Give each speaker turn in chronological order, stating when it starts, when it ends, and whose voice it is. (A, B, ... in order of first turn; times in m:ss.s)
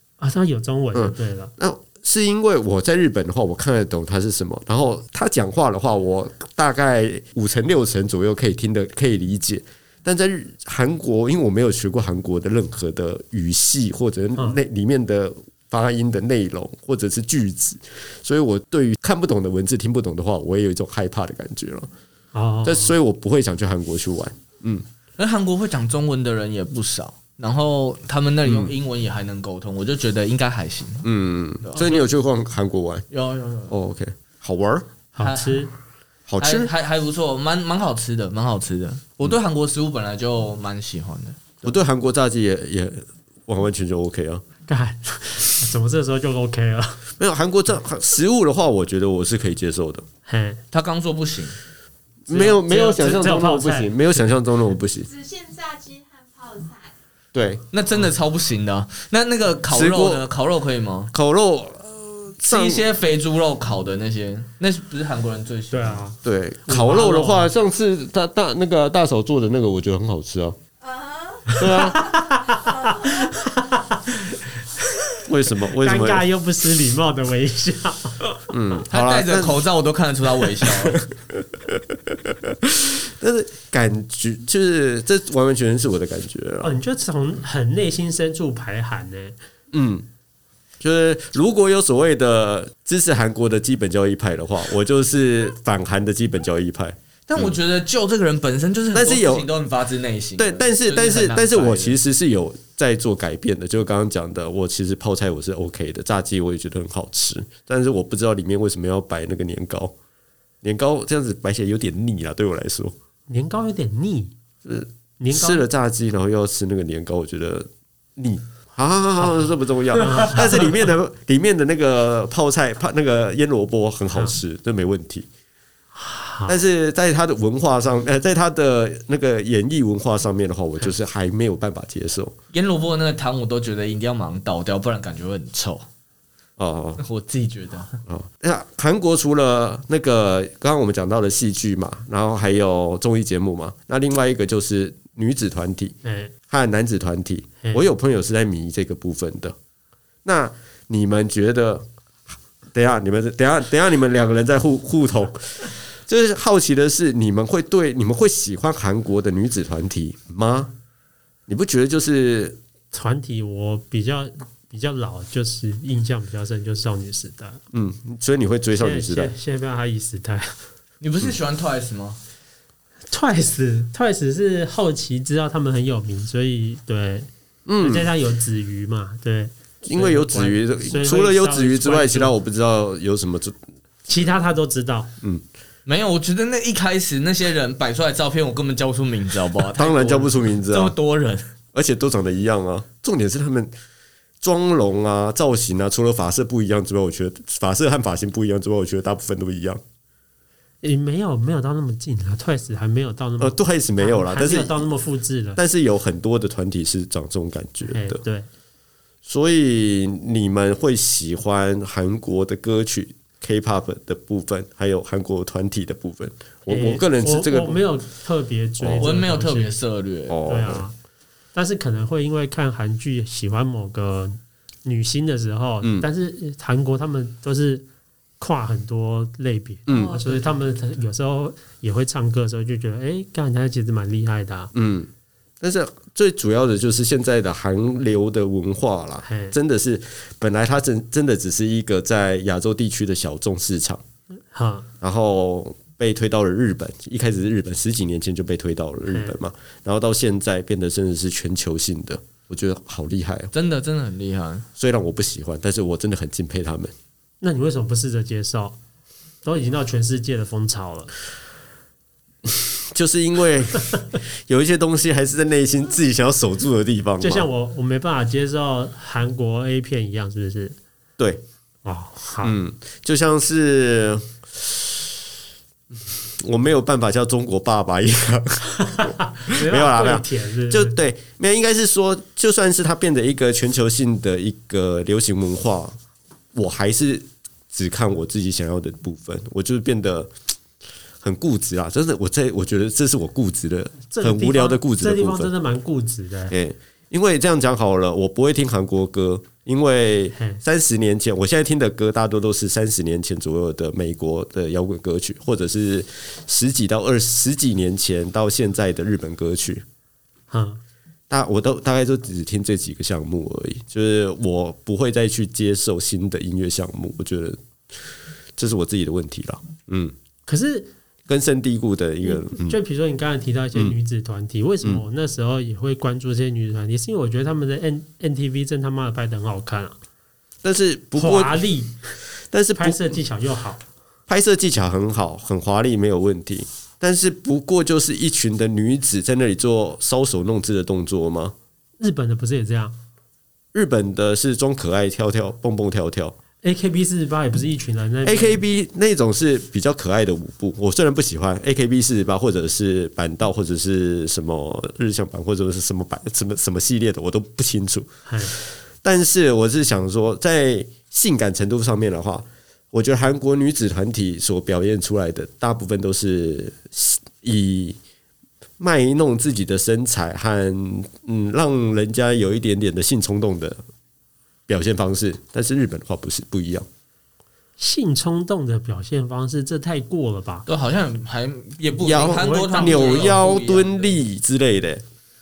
0:00.2-0:01.5 A
0:00.9-0:21.9 B
0:22.3-0:22.9 A
0:22.6-0:24.8 B
0:25.2-0:31.1 C
0:28.4-0:28.7 B
0:31.0-0:33.0 B
0:31.6-0:32.0 C
0:33.1-0:33.7 C
0:33.7-0:34.9 B
0:35.1-0:35.7 A
0:35.2-0:35.7 C
0:36.3-0:36.7 B
0:36.4-0:41.7 C
0:41.6-0:44.4 B
0:44.7-0:47.0 A
0:47.2-0:50.0 B
0:50.2-0:50.6 A
0:50.7-0:51.6 C
0:52.3-0:55.1 B
0:52.3-0:53.9 A
0:55.0-0:56.9 D
0:57.3-0:57.6 B
0:57.7-1:01.1 C
0:59.7-1:00.2 B
1:01.1-1:02.8 B
1:02.4-1:06.0 C
1:05.7-1:07.5 A
1:06.2-1:10.6 B
1:10.8-1:13.4 D
1:11.5-1:15.2 A
1:11.5-1:12.1 B
1:15.2-1:16.2 B
1:15.7-1:18.4 A
1:18.5-1:19.5 B
1:18.9-1:21.0 C
1:20.6-1:26.7 B
1:26.6-1:29.4 A
1:29.7-1:30.0 B
1:30.8-1:37.6 B
1:37.3-1:42.0 C
1:38.9-1:39.5 B
1:40.4-1:49.9 B
1:50.6-1:52.9 B
1:53.3-1:54.3 A
1:54.6-2:05.3 B
1:55.2-1:55.6 A
2:00.0-2:00.6 A
2:05.9-2:06.6 A
2:06.5-2:12.3 B
2:12.5-2:15.8 C
2:16.6-2:17.0 B
2:17.0-2:18.0 C
2:18.1-2:26.0 B
2:26.0-2:26.3 A
2:26.5-2:29.6 B
2:30.2-2:31.8 B
2:32.7-2:40.7 B
2:41.5-2:42.6 B
2:42.9-2:47.6 A
2:47.7-2:49.3 B
2:48.7-2:50.6 A
2:51.0-2:52.2 C
2:53.1-2:57.3 A
2:57.6-2:58.1 B
2:57.8-3:02.3 A
2:59.8-3:03.6 B
3:04.1-3:05.1 A
3:05.8-3:11.5 C
3:09.7-3:10.9 B
3:11.7-3:13.7 B
3:14.4-3:19.8 B
3:20.8-3:25.6 A
3:23.4-3:24.8 B
3:25.6-3:28.2 B
3:27.9-3:28.5 A
3:29.2-3:37.8 B
3:36.7-3:39.7 A
3:38.8-3:39.1 B
3:39.0-3:40.4 C
3:40.3-3:40.9 B
3:40.4-3:40.9 A
3:41.5-3:47.8 A
3:45.8-3:46.1 B
3:48.4-3:54.7 A
3:49.9-3:50.2 B
3:54.7-3:55.1 B
3:55.6-4:04.0 B
3:59.2-3:59.5 A
4:04.5-4:04.9 A
4:05.0-4:13.5 B
4:09.1-4:09.3 A
4:13.5-4:14.6 C
4:14.8-4:16.9 B
4:17.4-4:18.8 A
4:19.4-4:21.1 A
4:22.4-4:27.5 B
4:27.2-4:30.8 A
4:31.8-4:32.6 A
4:32.4-4:34.8 B
4:35.9-4:46.0 B
4:38.9-4:41.0 A
4:46.5-4:50.3 B
4:51.2-4:55.5 B
4:54.1-4:56.5 A
4:56.5-5:09.8 B
5:10.5-5:10.8 A
5:11.3-5:17.6 B
5:18.6-5:20.1 B
5:20.5-5:20.9 A
5:21.3-5:22.8 B
5:22.2-5:30.0 A
5:30.6-5:31.6 B
5:31.2-5:32.0 A
5:32.5-5:33.2 B
5:32.8-5:33.8 A
5:34.3-5:41.5 B
5:42.0-5:42.9 A
5:43.7-5:46.3 B
5:46.6-5:48.6 A
5:48.2-6:08.0 B
5:58.3-5:58.5 A
6:08.8-6:13.8 B
6:14.7-6:16.9 B
6:17.8-6:20.6 A
6:20.7-6:24.2 C
6:22.0-6:25.0 B
6:22.3-6:23.4 A